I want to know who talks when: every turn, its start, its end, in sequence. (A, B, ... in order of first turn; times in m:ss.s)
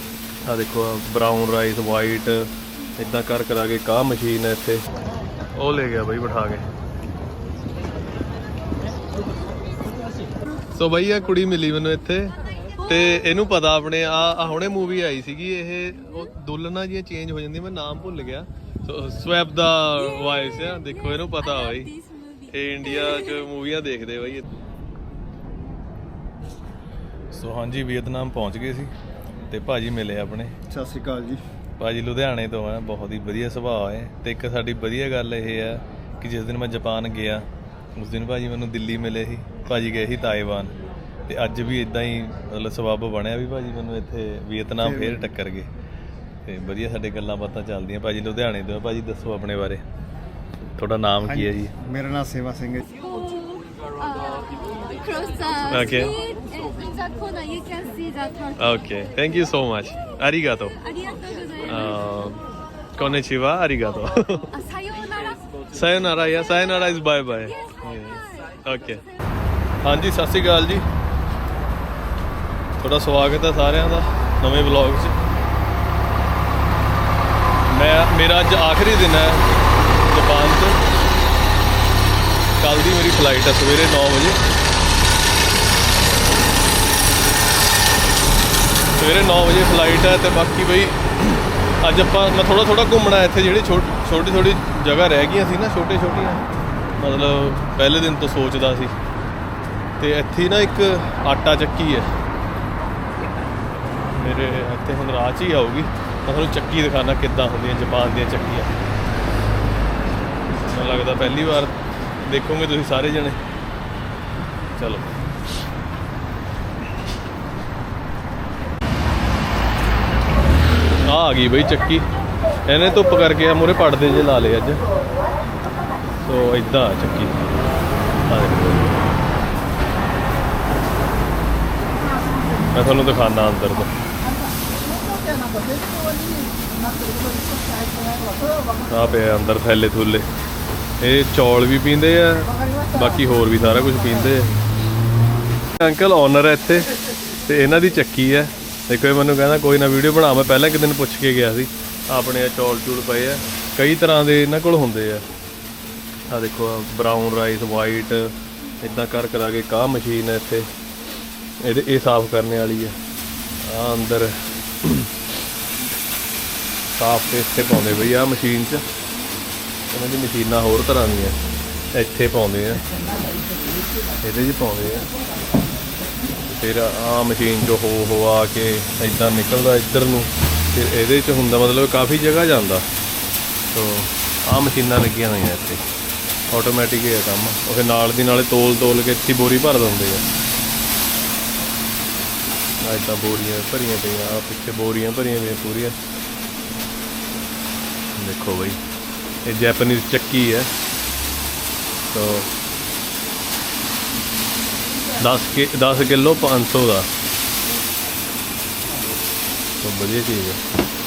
0:00.5-0:04.8 A
0:05.6-0:06.6 A
0:10.7-0:21.9 A
0:21.2-0:22.5 B
0:22.5-0:24.4 A
0:27.3-0:28.9 A
0:29.5-0:30.5 A
0:30.7-0:31.4 C
0:31.8-0:40.7 A
0:41.3-0:45.7 A
0:44.8-0:45.3 C
0:46.5-0:49.8 A
0:50.8-0:51.7 A
0:51.3-0:52.8 C
0:53.0-0:58.8 B
0:55.7-0:56.1 A
0:58.6-1:00.8 A
1:00.8-1:01.9 B
1:01.7-1:02.4 A
1:03.0-1:04.5 A
1:04.5-1:05.6 B
1:05.7-1:09.0 A
1:08.0-1:08.4 B
1:09.8-1:10.9 A
1:12.8-1:15.2 A
1:17.7-1:19.4 A
1:20.1-1:20.8 A
1:22.6-1:24.4 A
1:29.0-1:36.4 A
1:37.0-1:38.9 A
1:40.0-1:42.1 A
1:44.1-1:48.7 A
1:50.5-1:53.4 A
1:54.7-1:55.2 A
2:01.0-2:02.1 A
2:02.7-2:04.8 A
2:06.2-2:07.4 A
2:08.3-2:09.1 A
2:12.7-2:13.9 A
2:18.9-2:20.3 A
2:21.0-2:24.6 A
2:25.8-2:35.2 A
2:36.3-2:40.7 A
2:41.6-2:43.0 A
2:43.6-2:45.1 A
2:46.9-2:48.8 A
2:49.9-2:51.4 A
2:51.9-2:52.8 A
2:54.2-2:55.1 A
2:56.4-3:02.9 A
3:03.7-3:05.8 A
3:06.5-3:10.3 A
3:12.8-3:16.0 A
3:18.2-3:18.8 A
3:19.4-3:20.7 A
3:22.1-3:22.5 A
3:25.2-3:27.1 A
3:29.8-3:30.6 A